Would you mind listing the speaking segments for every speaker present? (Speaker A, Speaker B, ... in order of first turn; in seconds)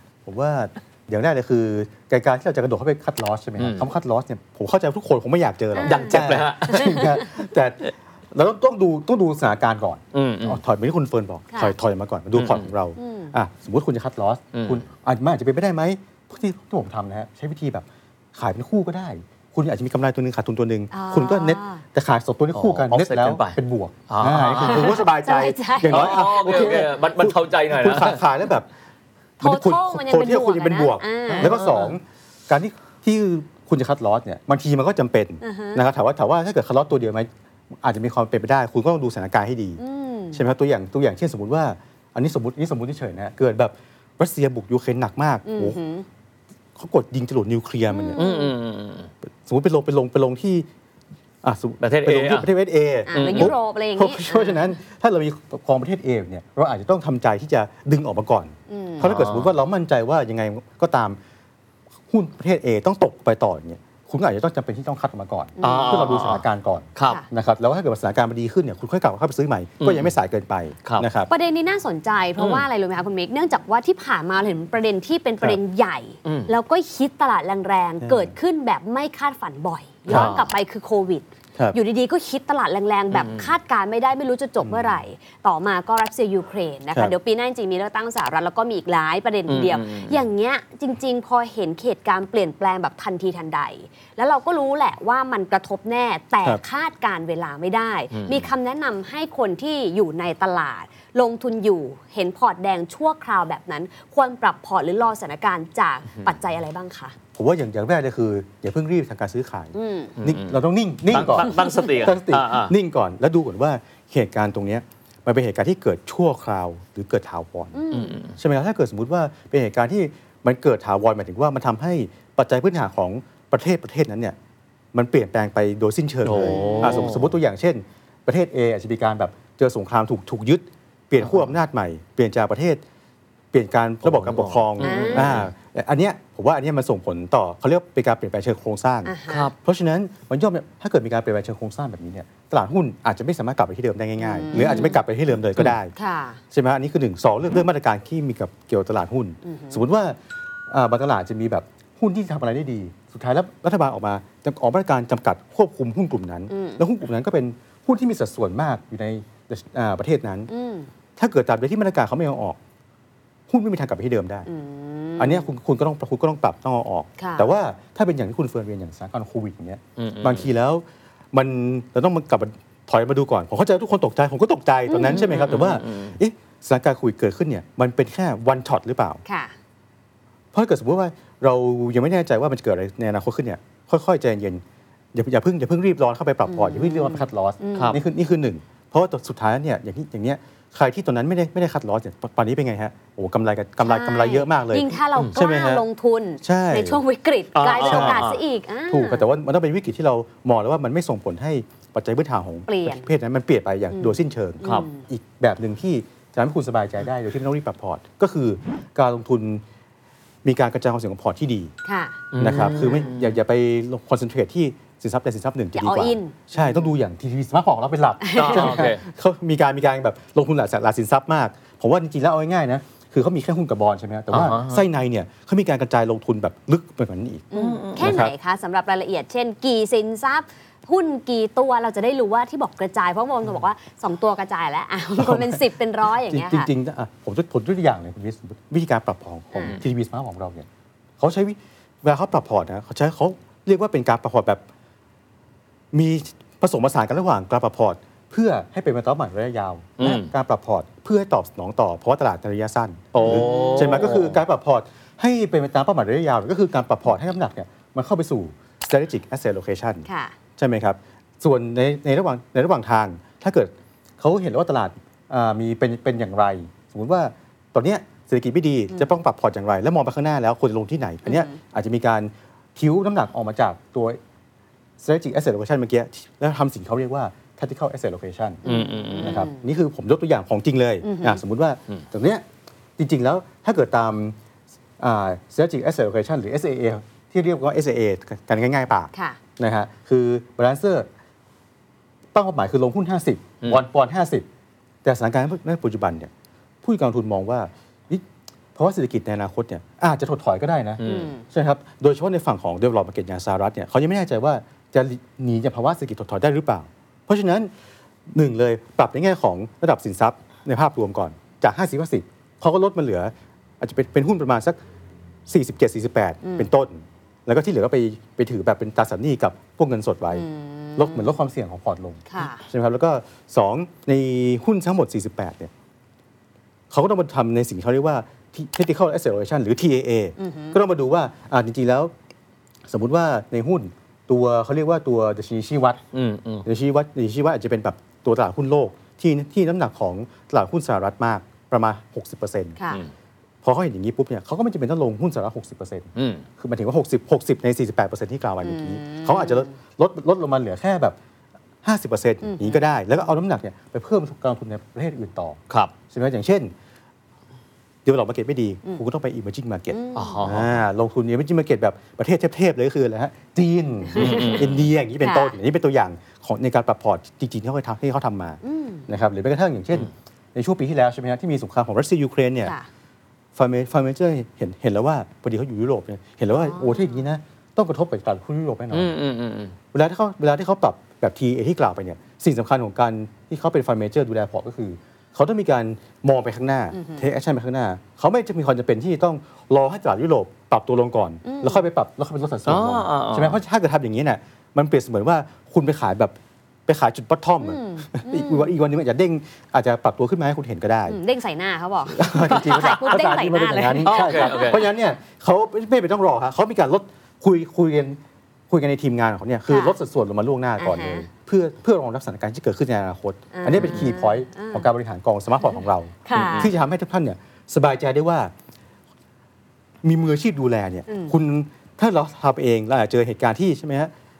Speaker A: 0.2-28.7, 29.4-39.8, 40.3-45.8, 46.8-48.2, 49.4-50.7, 51.4-61.2, 62.1-71.3, 78.0-78.3, 80.1-80.4, 84.6-85.0, 107.3-117.8, 118.3-124.3, 124.9-132.8, 133.5-145.9, 146.5-160.5, 161.2-162.6, 163.5-164.5, 165.2-179.2, 180.5-184.6, 185.1-195.8, 196.4-197.0, 197.8-198.3, 198.9-209.6, 210.4-211.7, 212.4-228.3, 235.2-240.7, 241.2-244.6, 245.9-260.1, 260.6-274.2, 275.0-278.6, 279.2-282.4, 283.0-284.4, 285.0-291.1, 292.3-294.4, 295.0-296.3, 296.8-307.7, 308.3-314.8, 315.5-325.7, 326.9-332.1, 332.9-336.0, 336.6-342.8, 343.6-351.1, 351.8-355.6, 356.1-356.7, 358.0-372.7, 373.6-379.1, 379.9-396.3, 396.9-401.2, 402.1-418.5, 420.0-424.1
Speaker B: 3.6-3.9, 5.8-7.2, 10.1-10.6, 12.3-12.7, 14.5-14.8, 22.5-25.0, 25.8-28.2, 31.3-31.9, 48.2-49.1, 51.8-52.5, 53.1-53.5, 59.0-59.5, 65.6-66.4, 69.8-70.1, 72.4-72.6, 80.1-80.5, 83.1-83.5, 89.5-90.2, 98.1-98.5, 110.2-112.7, 117.9-118.3, 126.2-127.3, 131.2-131.5, 134.0-135.5, 139.3-139.5, 144.5-144.8, 170.0-170.5, 175.0-176.2, 197.5-198.4, 212.3-213.3, 218.3-219.0, 224.3-224.8, 227.5-228.3, 250.0-250.3, 253.1-254.4, 278.6-279.4, 301.0-301.3, 336.1-336.6, 346.1-346.4, 360.1-360.8, 364.2-364.9, 378.9-379.7, 392.6-393.6, 402.6-403.1, 404.0-404.8, 413.7-414.0
Speaker C: 5.7-7.2, 13.0-13.3, 20.9-21.8, 24.6-26.8, 29.4-31.6, 35.4-35.8, 39.8-40.4, 45.4-46.0, 47.9-48.5, 53.0-54.6, 58.7-59.0, 65.6-66.0, 71.3-107.2, 109.7-110.1, 117.7-118.2, 126.4-127.0, 134.8-135.4, 139.0-139.5, 144.2-145.0, 145.9-146.4, 149.4-149.8, 156.5-156.8, 160.5-160.9, 164.4-165.5, 167.2-167.5, 174.9-175.4, 179.2-179.5, 186.4-187.9, 193.8-199.2, 202.7-203.1, 203.9-205.1, 211.8-212.9, 215.8-216.3, 218.2-218.8, 227.5-236.7, 253.2-253.9, 260.0-260.3, 271.2-271.6, 278.6-279.6, 281.0-281.4, 301.0-301.4, 316.4-316.7, 320.3-321.3, 322.3-322.6, 330.4-330.8, 342.8-343.0, 348.6-349.7, 352.4-352.8, 359.9-360.5, 364.1-364.6, 365.2-365.5, 368.6-369.1, 376.5-377.2, 386.9-387.2, 391.4-391.8, 397.6-398.7, 401.1-404.8, 409.7-410.0, 410.8-411.3, 413.5-414.9, 416.2-416.7, 421.1-421.3